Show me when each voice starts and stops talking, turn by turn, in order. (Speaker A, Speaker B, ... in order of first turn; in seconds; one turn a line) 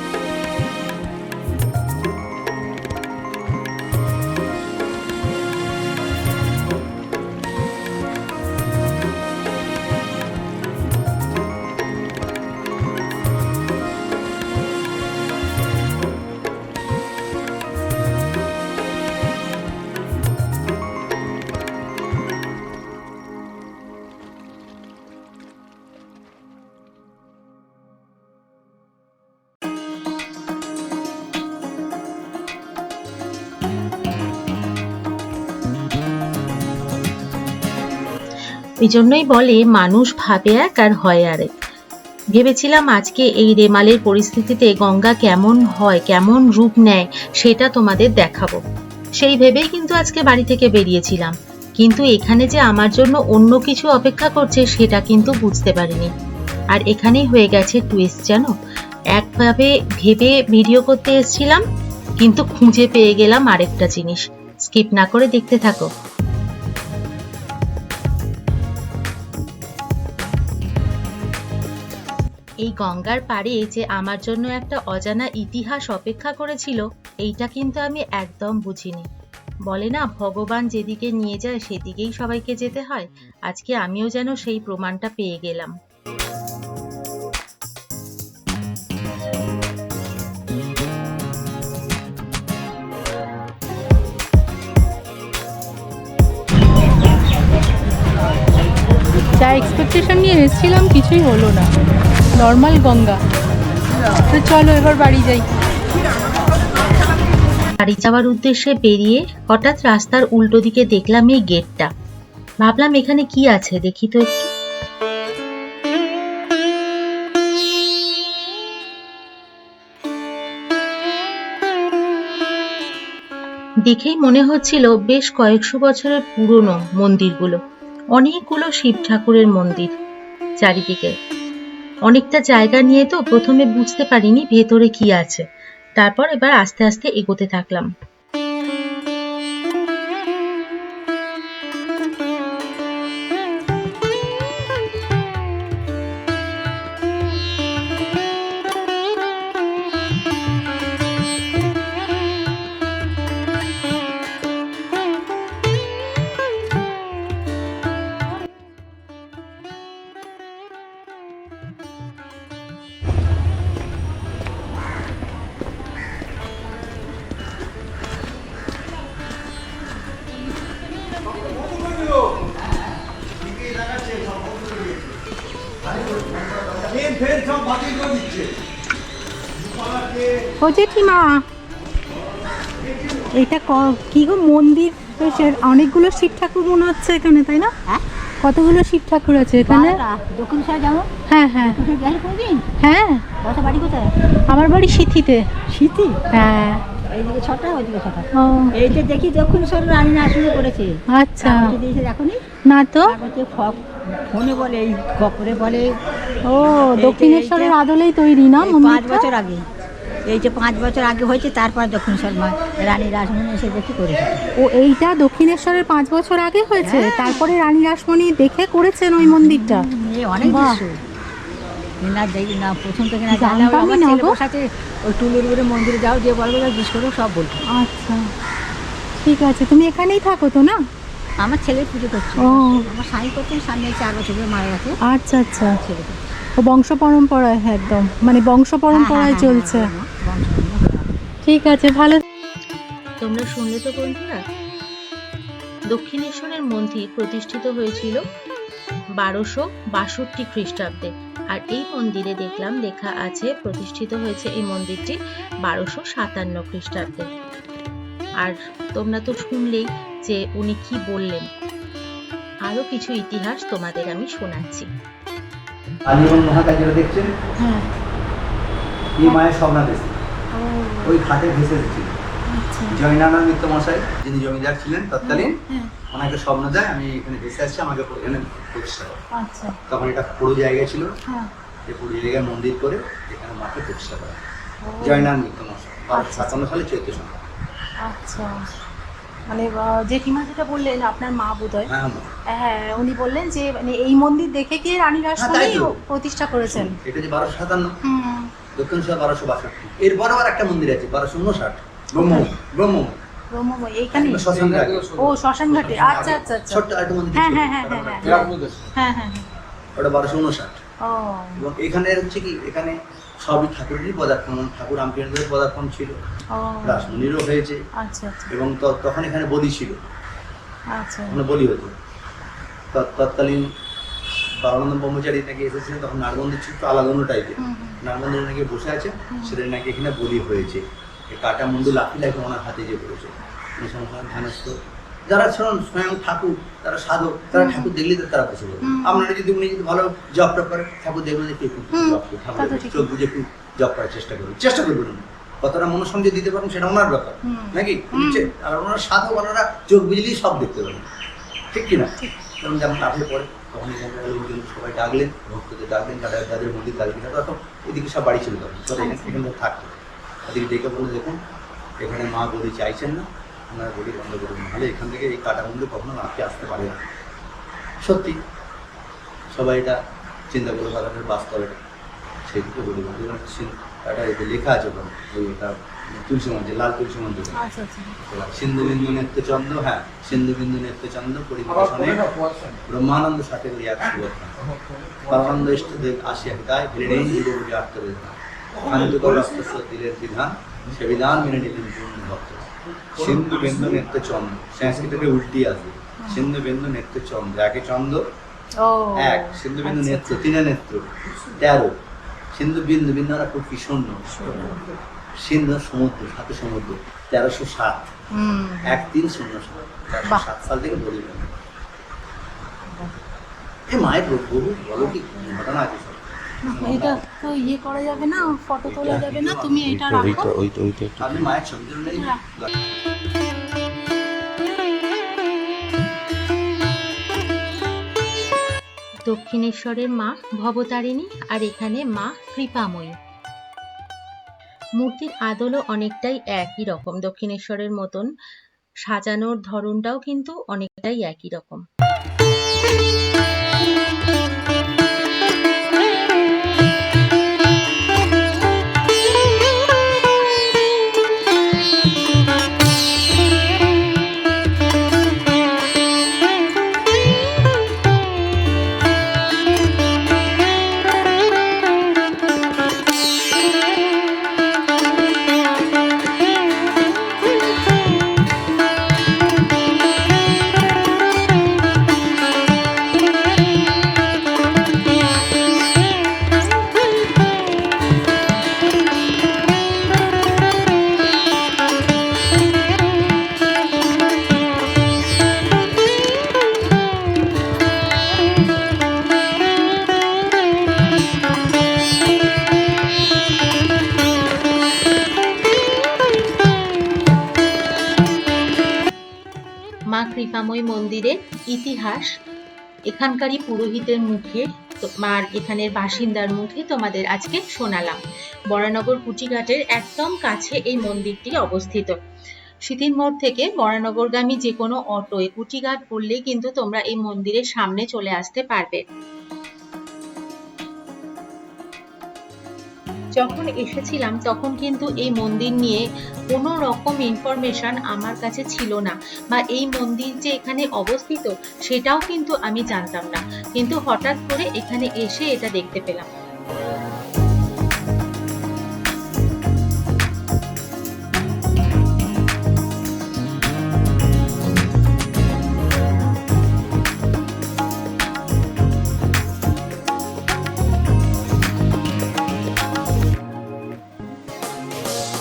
Speaker A: 38.8-41.5
Speaker A: 42.3-48.6
Speaker A: 49.2-56.1
Speaker A: 56.7-58.5
Speaker A: 59.1-61.6
Speaker A: 62.2-65.9
Speaker A: 72.6-79.1
Speaker A: 79.7-85.7
Speaker B: 99.4-101.7
Speaker B: 102.4-103.2
Speaker B: 104.3-105.4
Speaker A: 107.8-111.9
Speaker A: 112.6-114.5
Speaker A: 123.9-127.6
Speaker A: 128.2-129.9
Speaker A: 130.6-131.1
Speaker A: 132.1-135.4
Speaker A: 136.0-137.9
Speaker C: 176.7-178.4
Speaker B: 180.6-181.4
Speaker B: 183.4-187.7
Speaker B: 188.4-190.0
Speaker D: 189.7-192.6
Speaker B: 191.3-191.8
Speaker B: 192.8-193.3
Speaker D: 193.4-194.1
Speaker B: 194.5-195.4
Speaker D: 195.7-196.2
Speaker B: 196.3-196.8
Speaker D: 197.0-202.5
Speaker B: 198.4-198.8
Speaker B: 201.1-201.7
Speaker B: 202.7-203.1
Speaker D: 203.0-206.0
Speaker B: 206.5-209.2
Speaker D: 206.8-207.8
Speaker D: 208.6-209.7
Speaker D: 210.3-214.4
Speaker B: 214.6-219.8
Speaker D: 216.8-217.4
Speaker D: 219.2-221.0
Speaker B: 220.4-220.8
Speaker D: 222.0-227.6
Speaker B: 223.3-224.3
Speaker B: 227.7-228.2
Speaker B: 229.2-230.8
Speaker D: 231.4-235.0
Speaker B: 232.4-232.8
Speaker B: 235.1-235.8
Speaker D: 235.5-236.2
Speaker B: 236.6-239.9
Speaker D: 238.9-241.1
Speaker B: 241.4-242.2
Speaker A: 243.2-244.4
Speaker A: 245.9-248.2
Speaker A: 249.2-257.3
Speaker A: 258.4-261.5
Speaker A: 262.6-264.9
Speaker C: 266.1-267.3
Speaker B: 267.6-267.9
Speaker C: 269.2-270.2
Speaker B: 270.6-271.1
Speaker C: 271.0-272.1
Speaker B: 272.5-273.0
Speaker C: 272.9-275.6
Speaker B: 275.2-275.9
Speaker C: 276.1-279.2
Speaker B: 279.4-279.8
Speaker C: 279.9-281.1
Speaker C: 281.9-284.4
Speaker B: 284.8-285.3
Speaker C: 285.0-287.4
Speaker B: 286.1-286.6
Speaker B: 288.0-288.6
Speaker B: 289.5-291.9
Speaker C: 291.9-292.3
Speaker B: 292.5-296.9
Speaker C: 295.4-296.0
Speaker C: 296.6-297.9
Speaker B: 298.1-298.5
Speaker C: 298.8-303.1
Speaker B: 302.2-302.5
Speaker B: 303.5-304.5
Speaker C: 304.1-308.6
Speaker E: 304.6-305.0
Speaker B: 305.1-306.8
Speaker B: 307.3-309.4
Speaker E: 308.3-308.8
Speaker C: 309.9-310.8
Speaker B: 311.0-311.6
Speaker C: 311.5-316.2
Speaker B: 316.5-317.3
Speaker C: 316.8-317.8
Speaker B: 318.0-318.5
Speaker C: 318.5-320.0
Speaker B: 320.9-321.4
Speaker C: 321.3-321.9
Speaker C: 322.9-323.6
Speaker C: 324.6-334.8
Speaker B: 327.6-328.0
Speaker C: 335.3-351.1
Speaker B: 337.5-337.9
Speaker B: 338.8-339.3
Speaker B: 341.9-343.1
Speaker B: 347.5-348.5
Speaker C: 351.7-361.4
Speaker C: 362.0-367.0
Speaker C: 368.0-368.4
Speaker C: 369.5-370.0
Speaker C: 370.5-371.8
Speaker C: 372.5-377.6
Speaker B: 377.6-378.1
Speaker C: 378.2-384.6
Speaker C: 385.2-398.2
Speaker B: 398.8-400.4
Speaker C: 399.1-401.9
Speaker C: 402.5-404.8
Speaker B: 404.4-404.7
Speaker C: 405.4-408.0
Speaker B: 408.4-409.1
Speaker C: 408.9-411.5
Speaker C: 413.9-417.3
Speaker B: 415.0-415.5
Speaker B: 416.6-420.5
Speaker C: 418.9-420.5
Speaker E: 419.9-421.5
Speaker C: 421.2-422.7
Speaker A: 429.3-433.1
Speaker A: 435.0-438.3
Speaker A: 439.1-441.9
Speaker A: 500.1-502.3
Speaker A: 503.1-508.2
Speaker A: 508.7-512.2
Speaker A: 512.9-519.0
Speaker A: 523.4-536.3